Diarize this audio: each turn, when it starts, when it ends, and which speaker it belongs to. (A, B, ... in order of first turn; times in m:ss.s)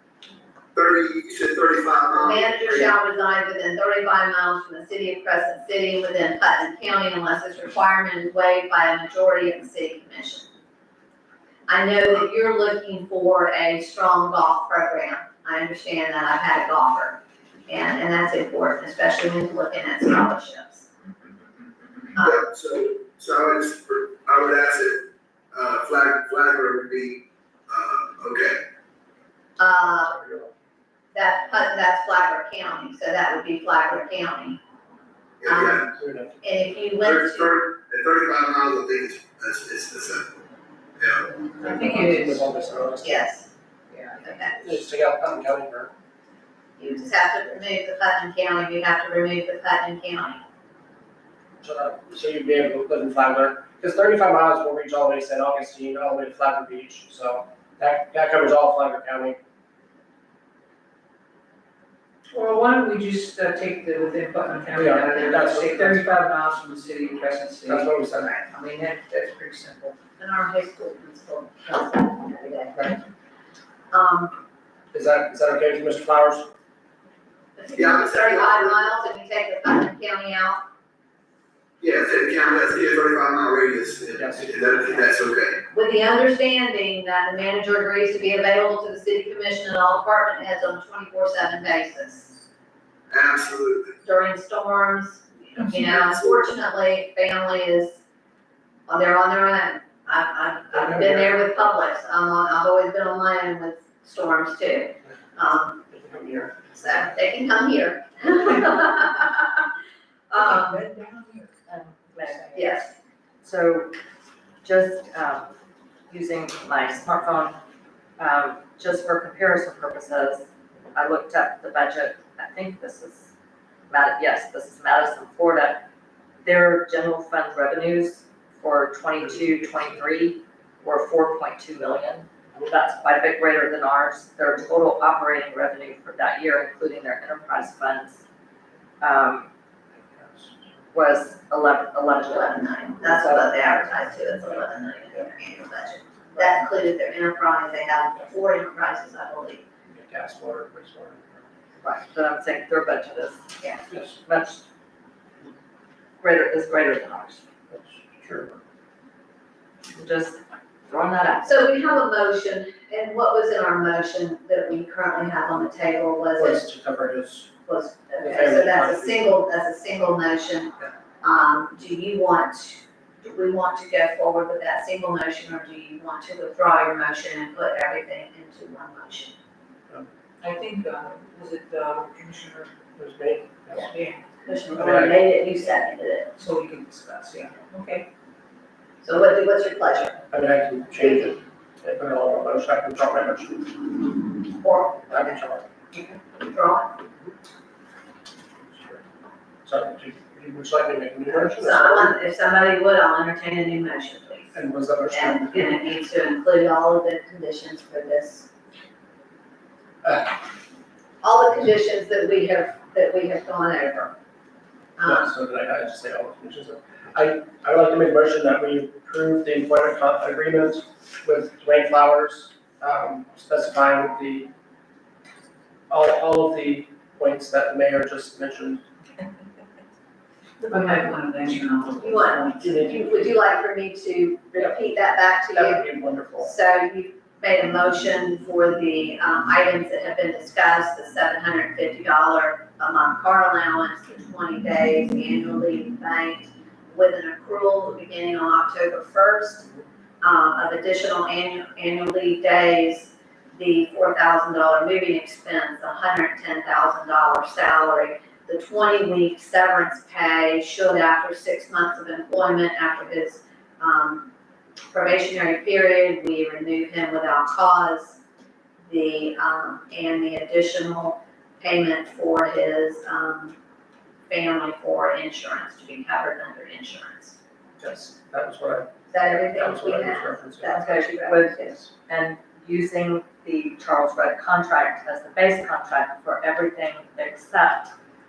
0:00.8-0:02.9 A
0:02.2-0:10.5 B
0:11.7-0:20.9 B
0:22.2-0:28.6 A
0:29.6-0:30.1 B
0:29.8-0:30.5 C
0:31.1-0:34.6 B
0:35.4-0:35.8 A
0:35.5-0:35.8 B
0:35.8-0:36.4 C
0:36.4-0:37.5 B
0:37.0-0:40.3 A
0:41.0-0:41.3 A
0:41.6-0:42.4 D
0:41.6-0:43.2 C
0:43.0-0:43.5 B
0:43.9-0:44.3 D
0:44.2-0:44.6 B
0:44.6-0:45.9 C
0:46.8-0:50.4 B
0:51.6-0:59.4 C
1:02.3-1:10.0 D
1:04.7-1:06.1 C
1:07.7-1:08.4 C
1:10.2-1:13.0 B
1:13.9-1:14.4 B
1:14.9-1:16.5 C
1:17.6-1:20.6 B
1:17.8-1:18.8 A
1:21.8-1:25.6 A
1:24.2-1:24.5 C
1:25.7-1:32.4 B
1:33.1-1:33.9 A
1:34.0-1:38.0 B
1:38.9-1:46.0 B
1:40.7-1:41.4 C
1:45.9-1:47.0 C
1:46.6-1:49.6 B
1:50.3-1:50.9 B
1:50.3-1:52.6 D
1:51.7-1:52.8 E
1:52.6-1:53.0 B
1:53.4-1:53.9 E
1:54.6-1:55.5 E
1:56.1-1:57.6 E
1:58.2-2:03.3 E
2:03.9-2:05.8 E
2:06.4-2:18.2 E
2:09.2-2:10.0 C
2:19.0-2:19.5 E
2:20.1-2:20.5 C
2:20.9-2:23.6 E
2:22.3-2:29.7 B
2:29.9-2:31.4 C
2:31.8-2:34.6 E
2:33.9-2:34.2 C
2:36.2-2:37.4 E
2:37.7-2:38.6 C
2:39.9-2:41.9 E
2:41.4-2:46.6 B
2:46.4-2:47.5 C
2:47.7-2:59.3 B
2:48.2-2:49.3 C
3:00.4-3:02.7 D
3:03.0-3:03.9 C
3:03.7-3:04.2 D
3:04.5-3:06.3 B
3:04.8-3:05.2 C
3:06.4-3:08.1 D
3:09.0-3:10.2 B
3:10.3-3:13.9 C
3:11.0-3:11.3 B
3:14.6-3:15.4 B
3:15.1-3:15.6 C
3:15.9-3:16.9 B
3:18.7-3:19.0 C
3:19.6-3:22.1 C
3:21.4-3:24.6 B
3:24.5-3:25.8 C
3:25.1-3:28.5 B
3:31.2-3:34.1 B
3:35.0-3:35.3 B
3:35.0-3:44.5 C
3:45.9-3:48.8 C
3:50.6-3:52.6 D
3:52.0-3:55.9 B
3:55.5-3:56.5 C
3:56.4-4:09.7 B
4:10.2-4:24.3 B
4:24.9-4:28.2 B
4:28.9-4:33.6 B
4:34.3-4:37.4 B
4:37.8-4:41.0 C
4:39.1-4:41.8 B
4:40.7-4:47.9 E
4:41.6-4:41.9 C